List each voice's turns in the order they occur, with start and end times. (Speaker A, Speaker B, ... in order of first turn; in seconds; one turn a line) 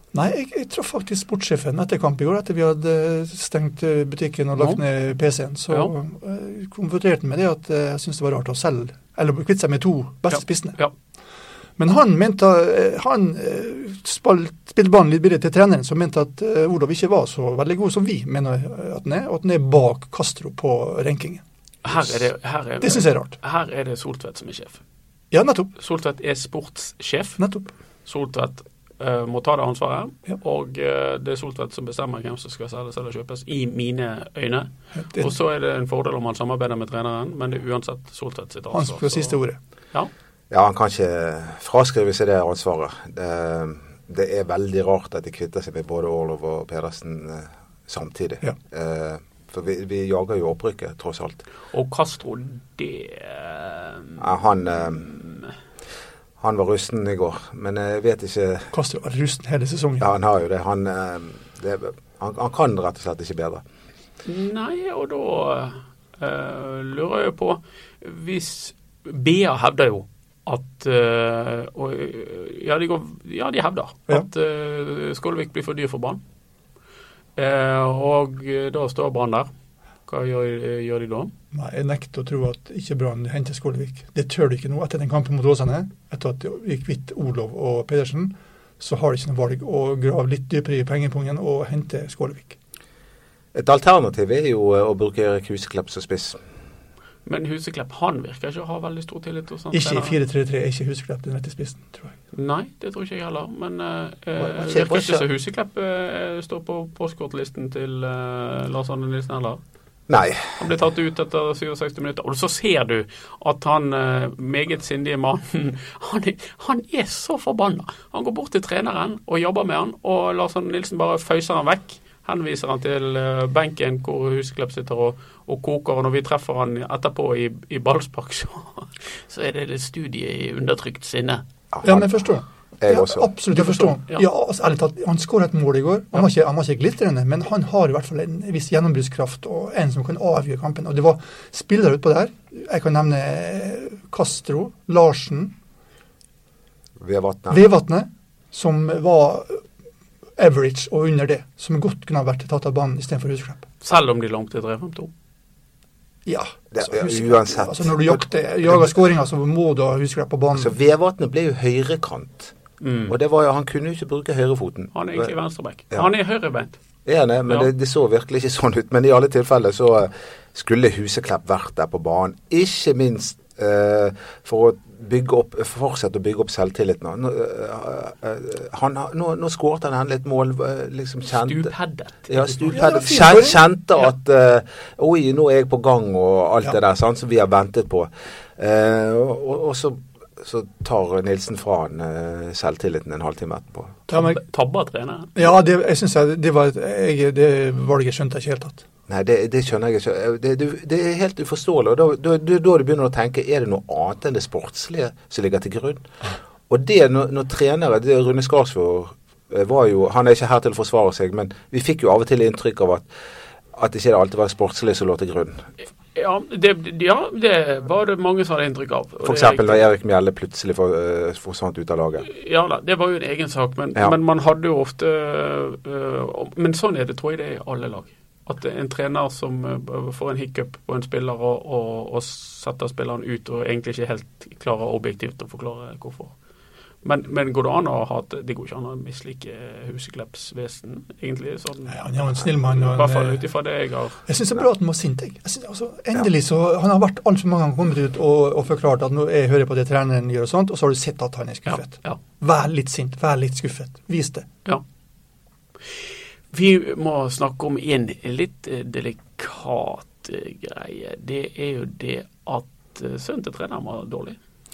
Speaker A: 0.1-10.8
Speaker B: 10.3-10.9
Speaker A: 11.8-22.2
Speaker B: 21.8-24.8
Speaker A: 22.8-23.4
Speaker A: 25.3-25.7
Speaker B: 25.8-27.4
Speaker A: 27.4-27.7
Speaker B: 28.1-39.4
Speaker A: 34.9-35.3
Speaker A: 38.7-39.6
Speaker C: 40.5-51.4
Speaker B: 51.7-54.2
Speaker C: 54.2-55.1
Speaker B: 55.0-55.5
Speaker C: 56.4-58.7
Speaker A: 58.7-60.0
Speaker C: 60.0-63.6
Speaker B: 64.2-76.2
Speaker B: 77.4-79.5
Speaker B: 80.1-81.3
Speaker A: 81.5-92.6
Speaker C: 93.5-96.4
Speaker B: 97.2-100.1
Speaker A: 99.7-102.1
Speaker B: 102.3-109.6
Speaker C: 104.4-105.2
Speaker C: 110.1-110.6
Speaker B: 110.6-131.4
Speaker C: 131.7-132.2
Speaker A: 131.8-145.5
Speaker C: 132.8-133.3
Speaker B: 133.5-134.2
Speaker C: 147.0-147.6
Speaker A: 147.5-149.6
Speaker A: 150.4-153.7
Speaker B: 153.8-155.1
Speaker A: 156.2-160.7
Speaker C: 156.7-158.9
Speaker C: 160.5-162.5
Speaker B: 162.8-163.1
Speaker C: 163.1-165.3
Speaker B: 164.9-166.8
Speaker C: 167.0-181.7
Speaker B: 181.3-183.0
Speaker C: 182.3-194.0
Speaker A: 182.7-183.6
Speaker B: 194.1-195.3
Speaker A: 194.1-194.4
Speaker A: 195.3-198.8
Speaker C: 199.1-206.0
Speaker C: 206.7-213.1
Speaker C: 213.7-215.7
Speaker B: 216.1-219.8
Speaker C: 219.2-222.2
Speaker B: 222.2-236.3
Speaker B: 237.0-242.0
Speaker A: 241.9-243.4
Speaker B: 242.6-244.2
Speaker A: 244.2-254.5
Speaker B: 251.7-252.2
Speaker B: 256.5-264.4